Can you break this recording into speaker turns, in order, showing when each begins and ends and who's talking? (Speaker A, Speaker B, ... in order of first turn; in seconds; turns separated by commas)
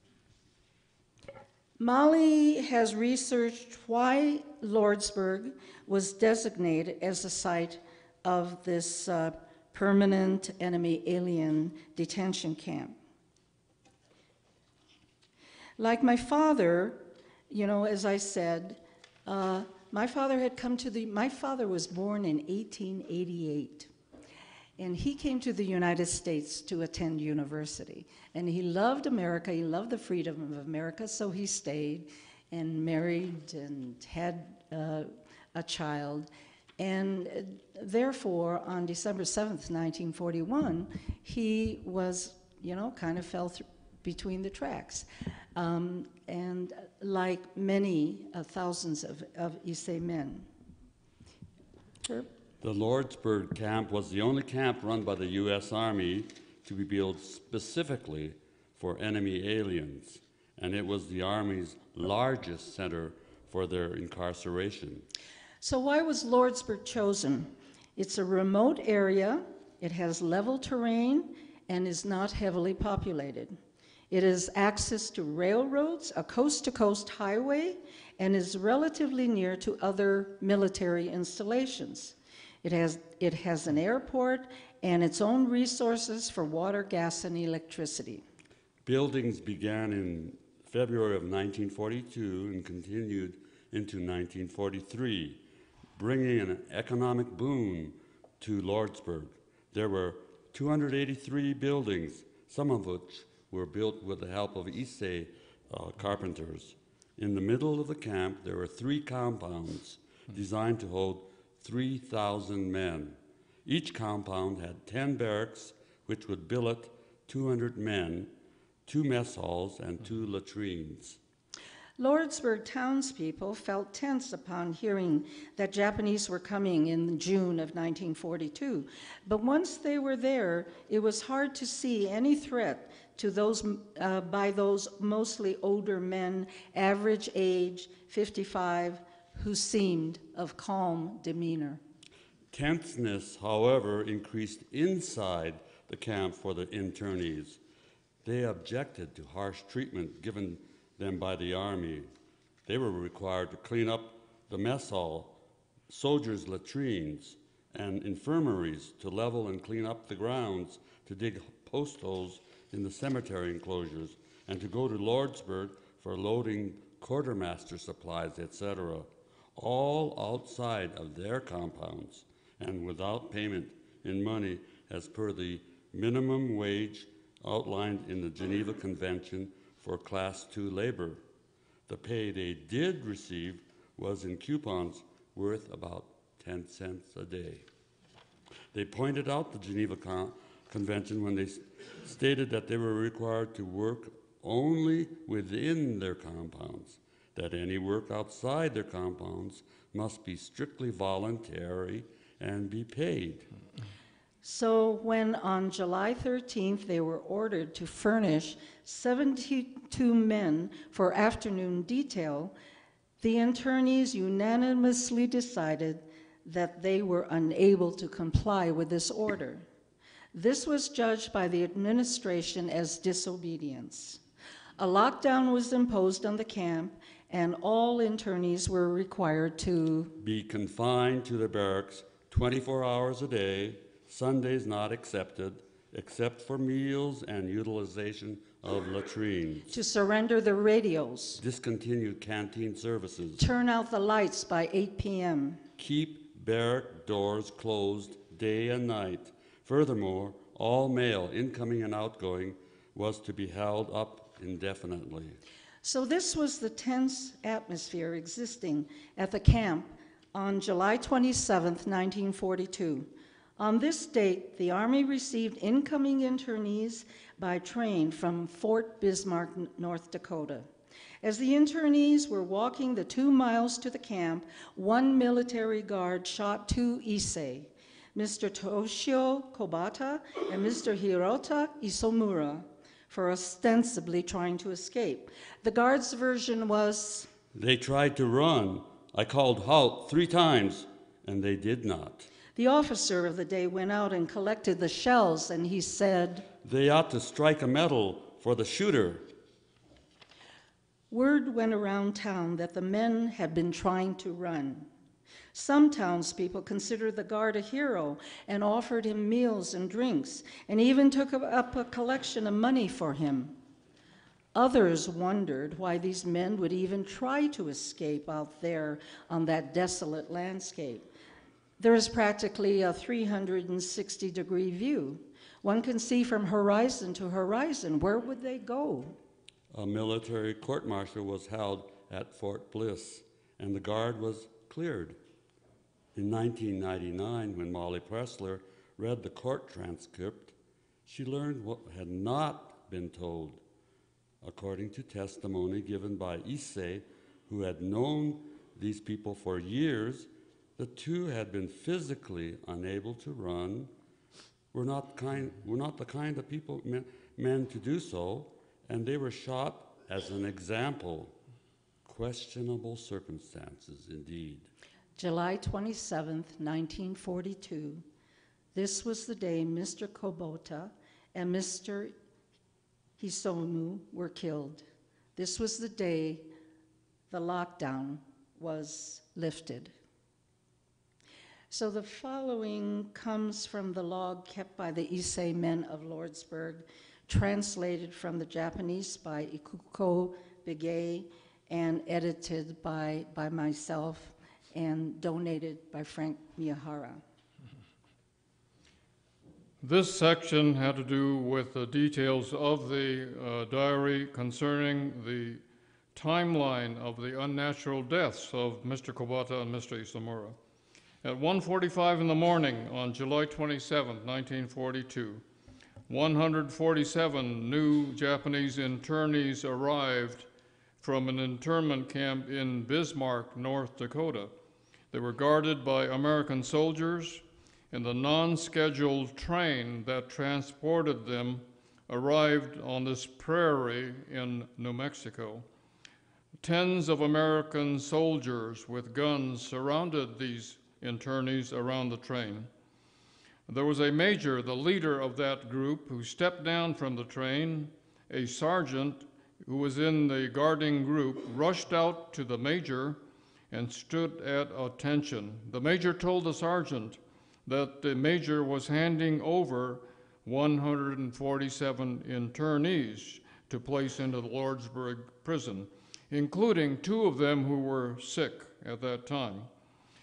Speaker A: 1.8-12.9, Speaker A: 15.8-23.9, Speaker A: 24.8-50.5, Speaker B: 52.6-65.0, Speaker A: 65.6-73.5, Speaker A: 74.1-88.2, Speaker B: 88.8-95.4, Speaker B: 96.0-118.3, Speaker B: 118.8-121.2, Speaker A: 122.0-141.8, Speaker B: 142.5-147.6, Speaker B: 148.2-152.1, Speaker B: 152.7-155.3, Speaker B: 155.9-181.2, Speaker B: 181.9-187.7, Speaker B: 188.7-203.5, Speaker A: 204.4-212.5, Speaker A: 213.2-219.6, Speaker A: 220.3-224.2, Speaker A: 224.8-230.1, Speaker B: 230.2-239.7, Speaker A: 239.7-241.4, Speaker B: 241.4-243.4, Speaker A: 243.4-245.6, Speaker B: 245.8-255.4, Speaker A: 255.8-270.7, Speaker A: 271.2-287.3, Speaker B: 287.5-292.3, Speaker A: 292.6-296.4, Speaker B: 296.6-299.2, Speaker A: 301.1-304.9, Speaker A: 305.5-313.6, Speaker A: 314.5-321.1, Speaker A: 321.8-329.1, Speaker B: 329.7-335.2, Speaker B: 336.1-340.5, Speaker B: 341.1-343.6, Speaker B: 344.4-353.9, Speaker B: 354.7-361.3, Speaker B: 362.0-364.7, Speaker A: 365.2-368.0, Speaker A: 368.7-372.1, Speaker A: 373.2-374.8, Speaker A: 375.4-376.5, Speaker A: 377.3-379.9, Speaker A: 381.7-397.2, Speaker C: 399.8-405.6, Speaker C: 406.1-410.6, Speaker C: 411.2-415.4, Speaker C: 416.1-420.5, Speaker C: 421.0-424.5, Speaker C: 425.1-435.6, Speaker C: 436.6-442.7, Speaker C: 443.7-453.2, Speaker C: 453.7-469.7